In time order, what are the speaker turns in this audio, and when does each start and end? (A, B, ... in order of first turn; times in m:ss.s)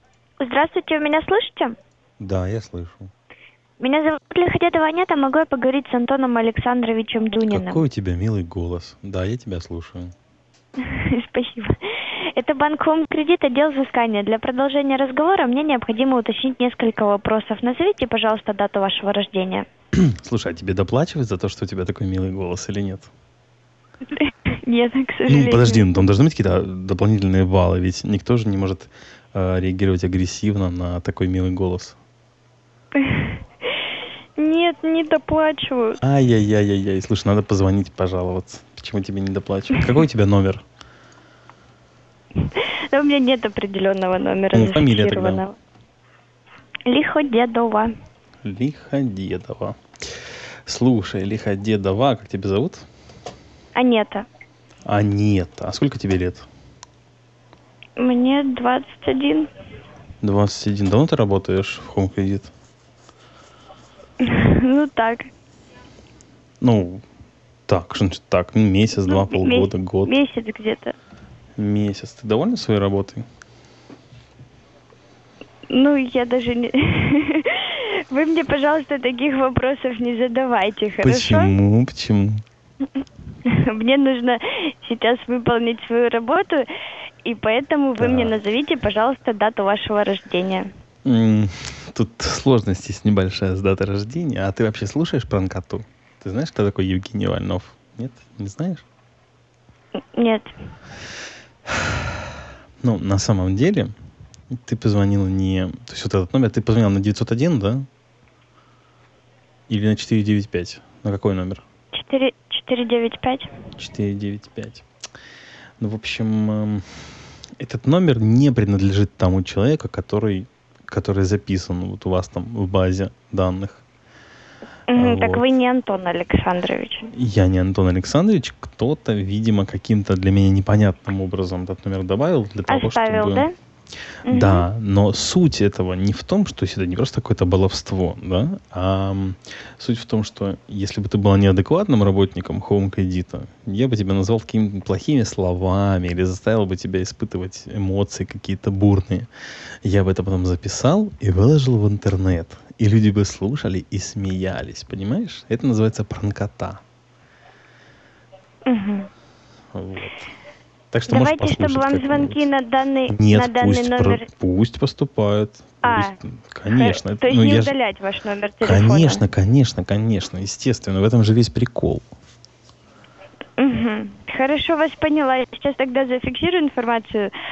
0:00.4-0:01.8 A
0:02.2-0:03.1 B
0:03.8-0:07.8 A
0:07.5-0:10.1 B
0:10.8-0:19.7 A
0:20.0-0:23.1 B
0:24.1-0:25.9 A
0:25.3-0:32.0 B
0:33.0-0:33.4 A
0:34.4-0:36.0 A
0:36.0-0:40.6 B
0:42.4-0:45.6 A
0:44.5-0:45.4 B
0:46.9-0:47.9 A
0:48.4-0:49.8 B
0:50.7-0:52.9 B
0:53.8-0:54.3 A
0:54.9-0:56.5 B
0:58.0-0:59.5 A
1:00.2-1:02.5 B
1:04.2-1:05.3 A
1:06.6-1:07.0 B
1:07.7-1:10.2 B
1:09.0-1:11.0 A
1:11.6-1:13.2 B
1:15.7-1:21.6 A
1:21.0-1:22.4 B
1:23.4-1:26.7 A
1:27.2-1:30.7 A
1:28.0-1:28.4 B
1:31.1-1:38.8 B
1:40.2-1:40.5 A
1:42.8-1:43.9 B
1:44.5-1:47.9 B
1:49.7-1:51.6 B
1:51.9-1:53.5 A
1:53.8-1:54.8 B
1:55.8-1:56.9 B
1:57.6-2:03.8 B
2:04.9-2:07.1 A
2:05.0-2:05.4 B
2:07.1-2:13.5 B
2:12.7-2:13.5 A
2:14.3-2:14.6 A
2:14.3-2:29.3 B
2:29.8-2:36.8 B
2:38.7-2:39.1 A
2:39.7-2:40.3 B
2:40.9-2:42.4 B
2:41.1-2:44.3 A
2:43.1-2:47.7 B
2:45.8-2:46.2 A
2:46.7-2:49.2 A
2:48.6-2:52.0 B
2:53.6-2:57.3 A